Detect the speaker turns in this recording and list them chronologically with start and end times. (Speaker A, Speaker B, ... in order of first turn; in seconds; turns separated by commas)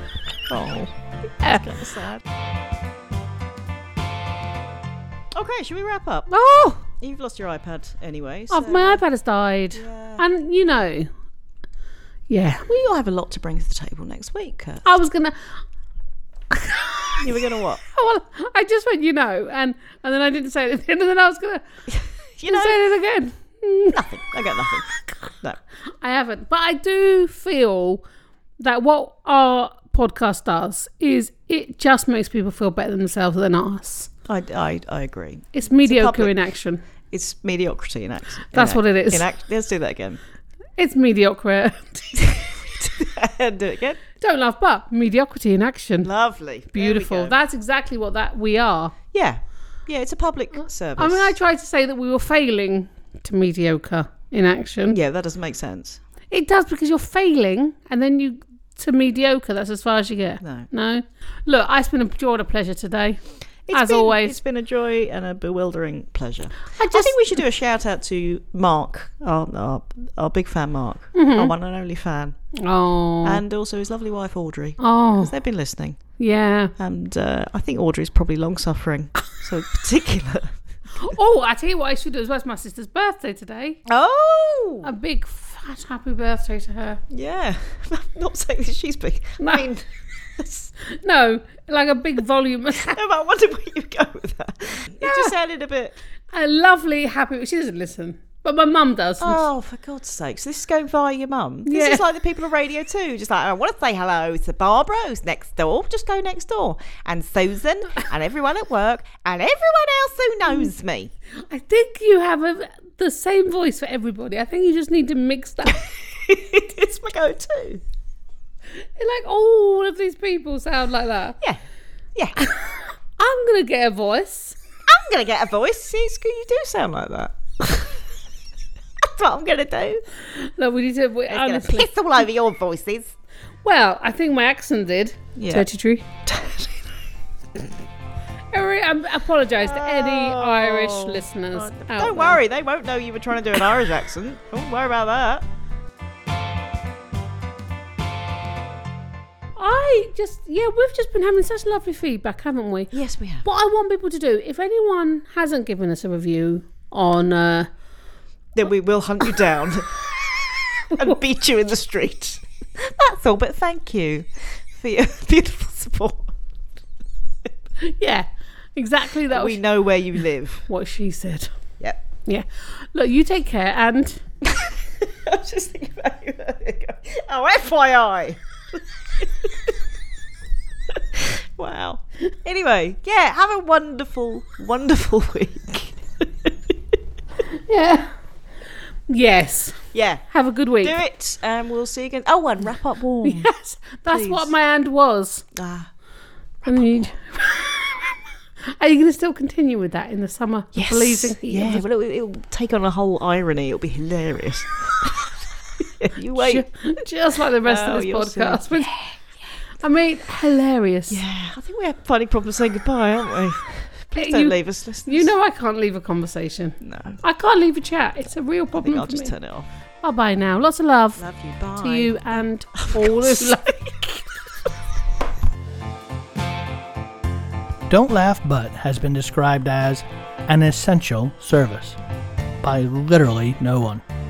Speaker A: 0.5-2.2, Speaker A: 5.3-6.3, Speaker B: 6.3-6.8, Speaker A: 6.9-9.0, Speaker B: 8.5-11.1, Speaker A: 9.7-10.2, Speaker B: 12.3-12.7, Speaker A: 12.7-14.8, Speaker B: 14.8-15.6, Speaker B: 16.5-17.2, Speaker A: 17.2-17.8, Speaker B: 17.8-21.6, Speaker A: 21.9-22.8, Speaker B: 22.4-24.0, Speaker A: 23.9-25.6, Speaker B: 26.0-28.0, Speaker B: 28.6-34.1, Speaker A: 34.3-36.3, Speaker B: 35.5-36.8, Speaker A: 37.1-40.2, Speaker B: 38.5-39.2, Speaker B: 40.8-42.2, Speaker A: 42.1-44.0, Speaker B: 44.2-46.1, Speaker A: 46.0-47.4, Speaker B: 46.7-49.0, Speaker A: 49.1-51.3, Speaker B: 51.0-55.0, Speaker A: 54.9-56.0, Speaker B: 56.3-64.4, Speaker A: 60.4-60.7, Speaker A: 63.7-72.4, Speaker B: 66.7-67.2, Speaker B: 71.1-71.5, Speaker B: 72.5-73.4, Speaker A: 73.2-76.0, Speaker B: 74.8-75.3, Speaker B: 76.2-76.7, Speaker A: 76.8-80.6, Speaker B: 81.0-83.8, Speaker A: 83.9-84.9, Speaker B: 84.8-87.0, Speaker A: 87.1-90.7, Speaker B: 89.4-89.7, Speaker B: 90.8-93.0, Speaker A: 92.8-96.0, Speaker B: 95.0-95.3, Speaker B: 96.3-99.4, Speaker A: 99.2-111.1, Speaker B: 101.7-102.0, Speaker B: 111.5-115.8, Speaker A: 116.2-117.8, Speaker B: 118.8-121.4, Speaker A: 122.1-122.4, Speaker B: 122.4-124.6, Speaker A: 124.9-127.8, Speaker A: 129.0-130.0, Speaker B: 130.2-131.9, Speaker A: 131.3-133.1, Speaker B: 133.6-136.1, Speaker A: 135.3-135.7, Speaker A: 136.2-136.7, Speaker B: 138.5-142.4, Speaker A: 139.6-145.4, Speaker B: 149.6-152.9, Speaker A: 152.9-153.4, Speaker B: 153.4-157.7, Speaker A: 158.5-160.1, Speaker A: 160.7-166.3, Speaker B: 167.8-169.6, Speaker A: 169.3-170.7, Speaker B: 170.7-171.5, Speaker B: 172.2-174.2, Speaker A: 174.4-178.4, Speaker A: 179.2-179.7, Speaker A: 180.9-186.5, Speaker B: 187.4-188.1, Speaker B: 189.1-191.0, Speaker A: 189.9-190.2, Speaker A: 190.8-193.5, Speaker B: 193.2-195.4, Speaker A: 194.1-194.5, Speaker A: 195.5-195.9, Speaker A: 196.7-197.1, Speaker B: 196.7-201.8, Speaker A: 200.7-206.7, Speaker B: 206.3-209.0, Speaker A: 207.6-209.0, Speaker B: 209.8-211.2, Speaker A: 211.1-215.3, Speaker B: 214.1-219.3, Speaker A: 216.8-217.2, Speaker A: 218.8-219.7, Speaker B: 220.0-221.2, Speaker A: 221.2-222.1, Speaker B: 221.8-224.0, Speaker A: 222.7-224.1, Speaker C: 227.9-232.0, Speaker C: 232.6-234.0